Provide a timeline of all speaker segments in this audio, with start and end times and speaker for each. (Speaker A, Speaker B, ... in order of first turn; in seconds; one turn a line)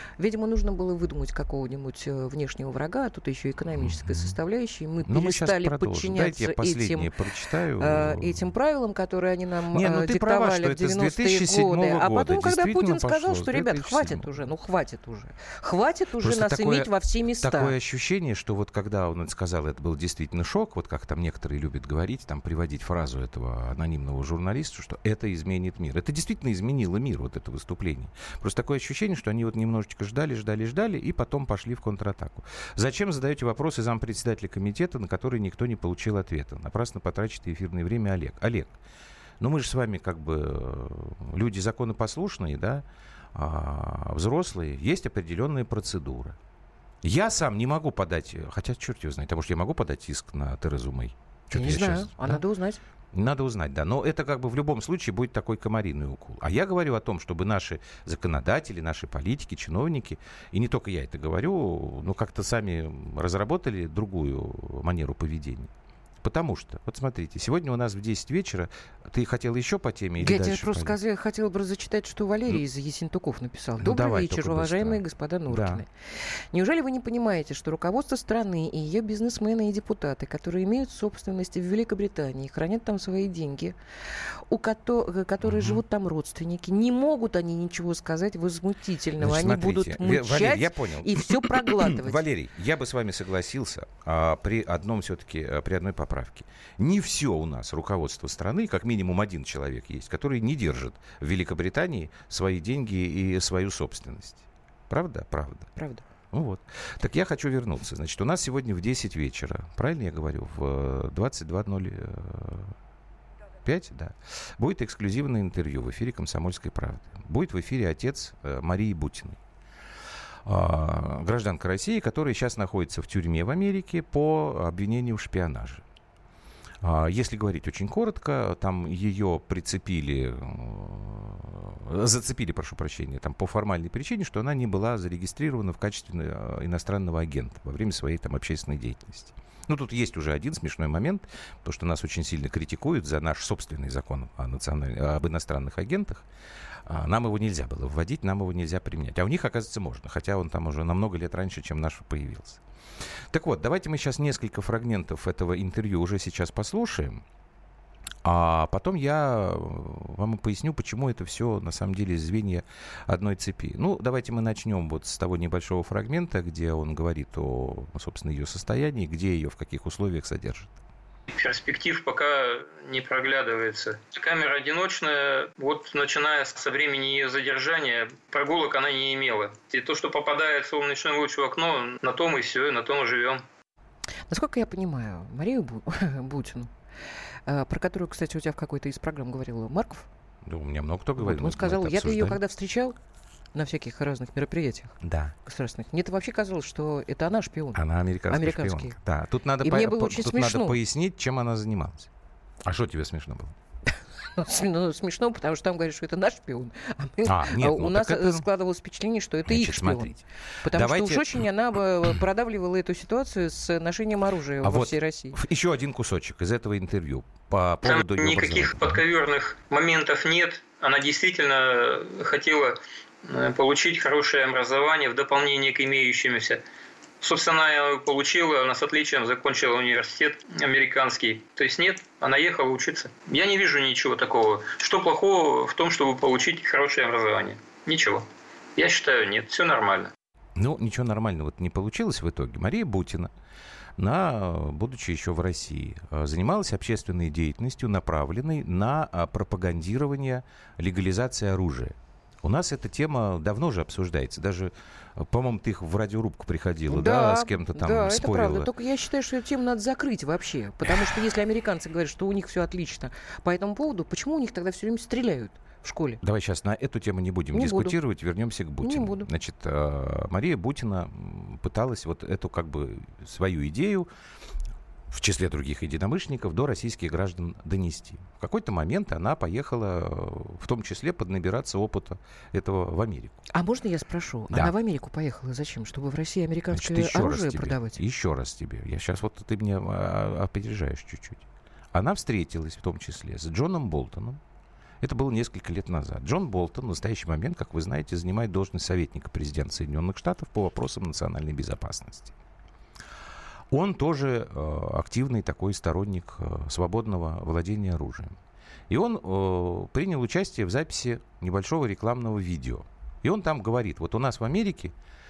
Speaker A: 0.2-7.1
Speaker B: 3.7-4.3
Speaker B: 5.0-8.4
Speaker A: 7.8-17.7
Speaker B: 9.7-14.3
Speaker B: 16.2-38.8
Speaker B: 39.4-46.4
Speaker B: 47.0-52.4
Speaker A: 51.5-52.8
Speaker B: 53.1-65.7
Speaker B: 66.2-71.0
Speaker A: 70.2-75.9
Speaker B: 73.8-75.8
Speaker A: 76.5-83.8
Speaker A: 84.5-92.2
Speaker B: 85.4-85.8
Speaker B: 89.2-105.7
Speaker A: 105.8-106.0
Speaker B: 106.3-112.7
Speaker B: 113.6-119.4
Speaker B: 120.4-125.8
Speaker B: 126.8-146.2
Speaker B: 146.8-152.6
Speaker B: 153.3-157.2
Speaker B: 158.2-170.7
Speaker C: 171.3-183.4
Speaker A: 184.3-186.7
Speaker A: 187.5-190.1
Speaker B: 190.4-192.4
Speaker A: 191.2-192.9
Speaker A: 193.5-199.0
Speaker B: 195.0-195.3
Speaker B: 197.7-202.1
Speaker A: 199.6-200.8
Speaker B: 202.6-203.5
Speaker A: 204.3-210.1
Speaker B: 207.2-208.5
Speaker B: 209.4-211.4
Speaker A: 210.6-215.4
Speaker B: 214.6-219.0
Speaker C: 217.8-226.6
Speaker C: 227.2-240.1
Speaker B: 240.6-243.3
Speaker B: 244.0-258.7
Speaker A: 256.9-266.2
Speaker B: 266.2-274.1
Speaker A: 267.5-268.0
Speaker A: 268.8-269.3
Speaker B: 275.1-283.4
Speaker A: 283.5-288.0
Speaker B: 286.7-294.4
Speaker B: 295.0-302.3
Speaker B: 303.7-308.4
Speaker B: 308.9-314.9